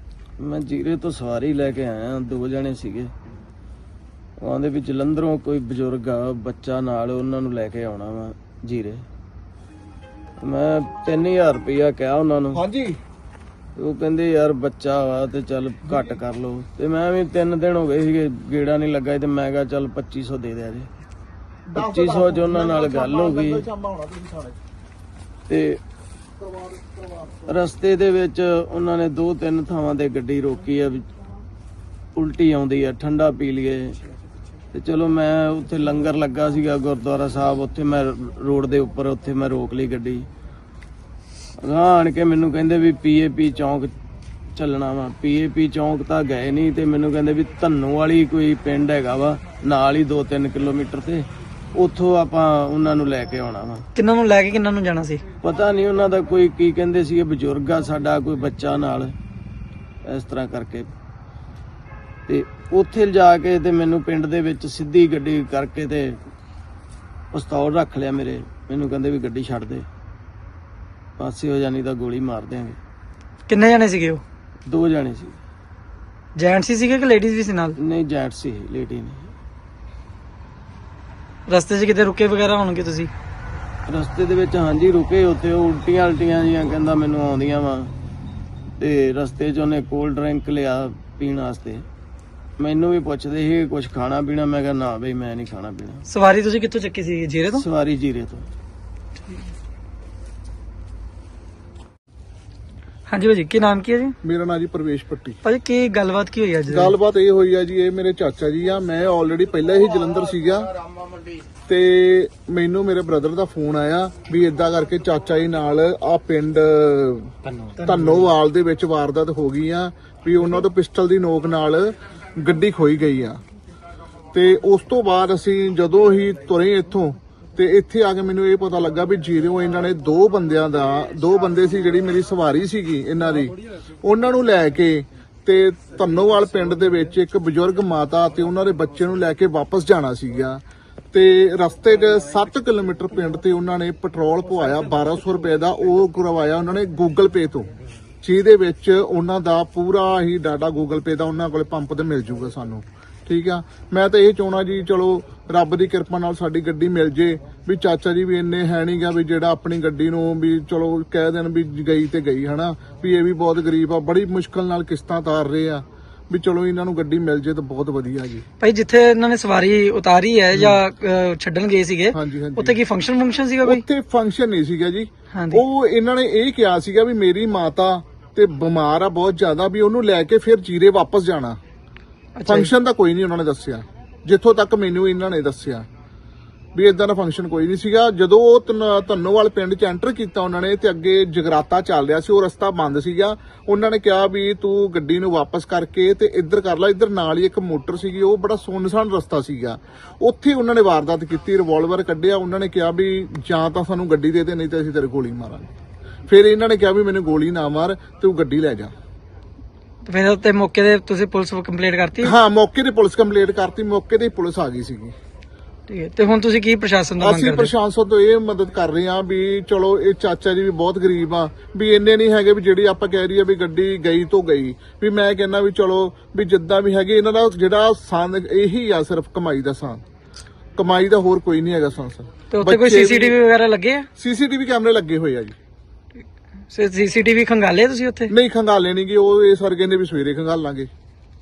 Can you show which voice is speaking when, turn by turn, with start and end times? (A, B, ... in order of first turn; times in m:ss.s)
0:00.4-0:03.1 A
0:04.4-0:09.0 A
0:10.4-0:12.6 A
0:12.5-0:13.0 B
0:13.8-0:20.9 A
0:21.7-0:24.6 B
0:21.8-0:23.6 A
0:25.5-0:25.8 A
0:26.4-0:27.0 B
0:27.5-0:31.1 A
0:32.2-0:34.0 A
0:34.7-0:40.3 A
0:41.6-0:43.9 A
0:44.5-0:53.8 A
0:54.0-0:55.2 C
0:55.4-0:59.2 A
1:00.1-1:00.9 A
1:02.3-1:06.2 A
1:07.3-1:09.9 A
1:11.2-1:12.8 A
1:13.5-1:14.2 C
1:14.7-1:15.4 A
1:16.4-1:17.8 C
1:17.8-1:19.3 A
1:21.5-1:23.1 C
1:23.9-1:27.9 A
1:28.8-1:31.8 A
1:32.6-1:36.0 A
1:36.1-1:37.6 C
1:37.5-1:38.5 A
1:43.1-1:44.2 C
1:44.2-1:45.4 B
1:45.4-1:46.9 C
1:46.7-1:50.7 B
1:51.7-2:03.4 B
2:04.3-2:27.7 B
2:28.2-2:48.5 B
2:48.6-2:53.8 C
2:50.5-2:50.8 B
2:52.1-2:52.8 B
2:53.6-3:01.6 B
2:55.3-2:55.6 C
3:02.3-3:02.7 C
3:02.5-3:05.9 B
3:06.8-3:25.7 B
3:26.3-3:28.9 B
3:30.1-3:32.3 C
3:32.2-3:35.2 B
3:35.9-3:37.7 C
3:37.2-3:50.0 B
3:50.8-3:53.4 B
3:52.5-3:54.1 C
3:54.2-3:55.6 B
3:56.7-3:58.3 C
3:58.3-4:00.9 B